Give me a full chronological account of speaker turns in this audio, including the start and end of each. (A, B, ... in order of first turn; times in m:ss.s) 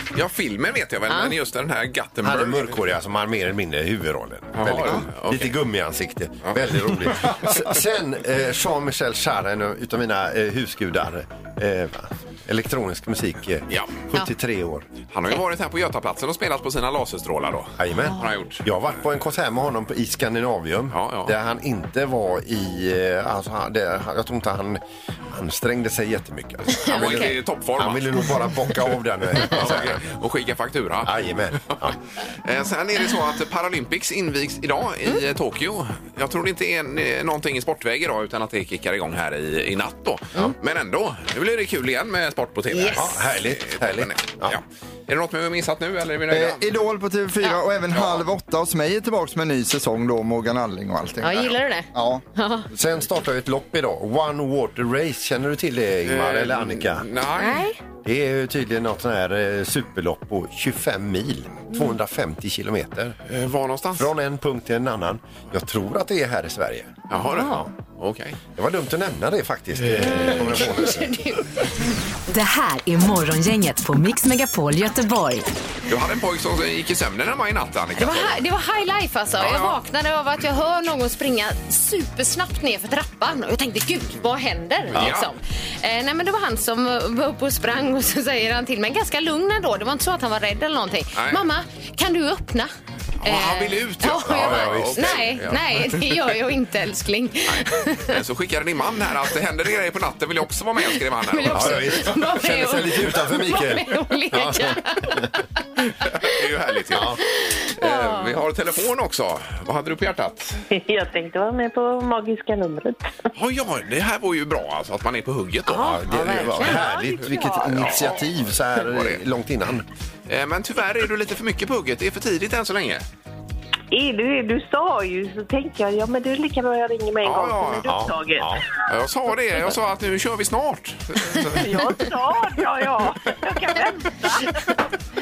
0:00.1-0:02.8 A
0:01.1-0:01.3 B
0:02.2-0:14.9 C
0:04.5-0:05.6 A
0:13.7-0:14.0 A
0:15.1-0:18.6 A
0:17.8-0:30.0 C
0:20.9-0:21.3 A
0:26.7-0:27.4 B
0:26.9-0:28.2 A
0:29.4-0:31.8 A
0:31.0-0:32.0 C
0:32.4-0:46.7 A
0:42.7-0:43.1 B
0:42.9-0:44.6 C
0:46.3-0:52.2 D
0:47.9-0:48.2 A
0:51.2-0:52.7 B
0:52.7-0:57.0 C
0:56.0-0:57.7 A
0:57.4-0:57.8 B
0:58.0-1:03.2 C
1:03.3-1:04.1 A
1:04.0-1:07.7 C
1:07.1-1:08.4 A
1:07.3-1:07.6 B
1:08.5-1:11.2 C
1:10.0-1:11.7 B
1:12.3-1:15.4 E
1:15.9-1:18.4 A
1:18.0-1:32.7 B
1:19.4-1:19.8 A
1:24.9-1:25.3 A
1:31.2-1:31.4 A
1:33.2-1:36.0 A
1:33.2-1:38.2 B
1:34.2-1:35.3 C
1:37.5-1:42.1 A
1:41.2-1:45.5 B
1:41.5-1:45.3 C
1:46.0-1:47.2 A
1:46.9-1:47.2 C
1:47.3-1:48.4 B
1:47.8-1:50.6 A
1:50.7-1:53.0 F
1:53.3-1:56.7 A
1:55.7-1:56.9 B
1:55.8-1:59.8 C
1:56.6-1:58.1 F
1:57.8-1:59.2 A
2:00.3-2:03.0 A
2:03.9-2:08.5 F
2:07.2-2:08.0 A
2:07.9-2:08.6 C
2:08.9-2:11.9 A
2:11.6-2:14.6 F